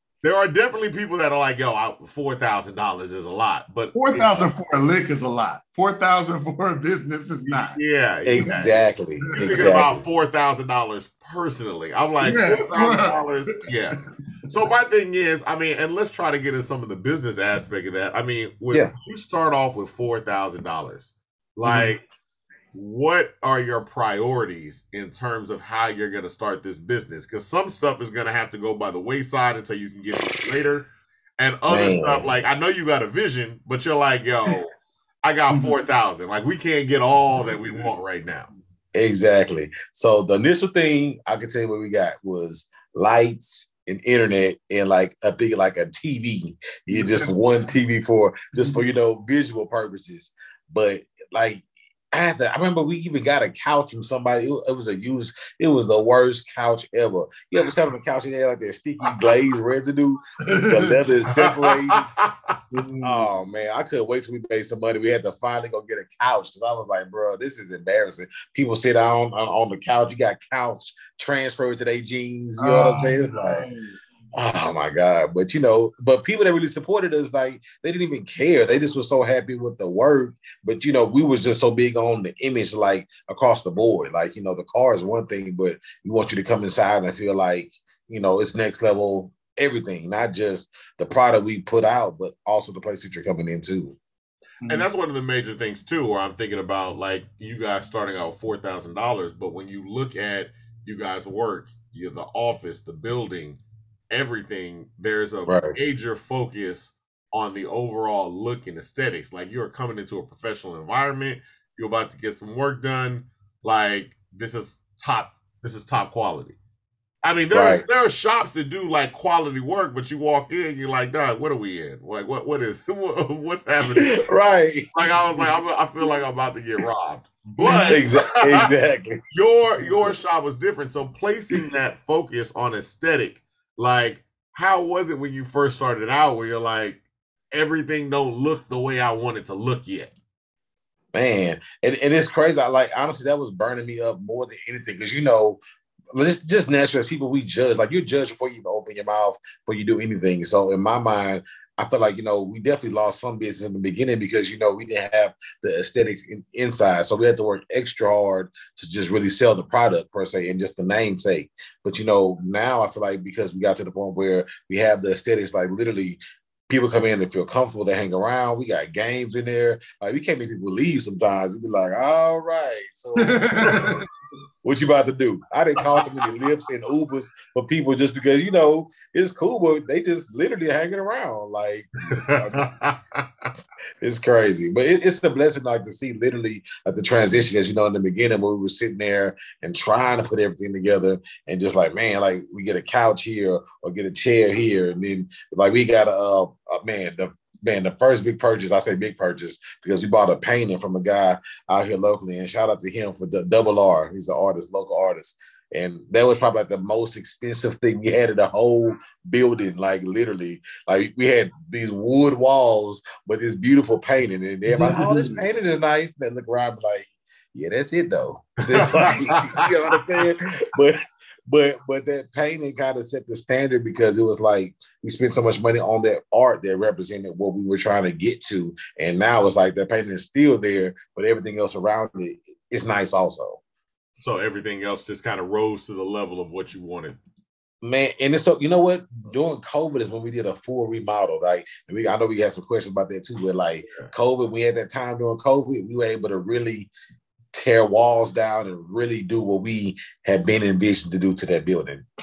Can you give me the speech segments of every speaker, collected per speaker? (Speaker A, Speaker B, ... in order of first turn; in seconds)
Speaker A: 0.2-4.5, 7.4-8.6, 9.3-22.0, 22.7-30.9, 31.4-34.7, 35.2-38.5, 61.3-62.5, 94.7-103.6, 104.1-116.6, 117.2-124.2, 124.9-128.7, 129.3-140.1, 182.1-183.5, 218.7-219.7, 234.2-237.2, 243.8-244.1
Speaker B: 3.9-7.8, 8.4-8.7, 9.2-9.8, 12.2-13.2, 46.9-47.4, 48.5-48.9, 60.5-61.0, 62.7-63.3, 72.6-73.9, 94.6-94.9, 127.6-128.0, 173.2-174.0, 214.7-215.4
Speaker C: 8.2-10.0, 21.6-21.9, 31.7-32.3, 38.9-62.0, 63.0-73.7, 74.3-94.0, 105.5-105.8, 117.5-117.8, 123.8-124.9, 127.9-129.2, 141.1-145.6, 146.1-173.9, 174.6-182.7, 184.0-233.6, 237.8-246.9, 247.5-252.0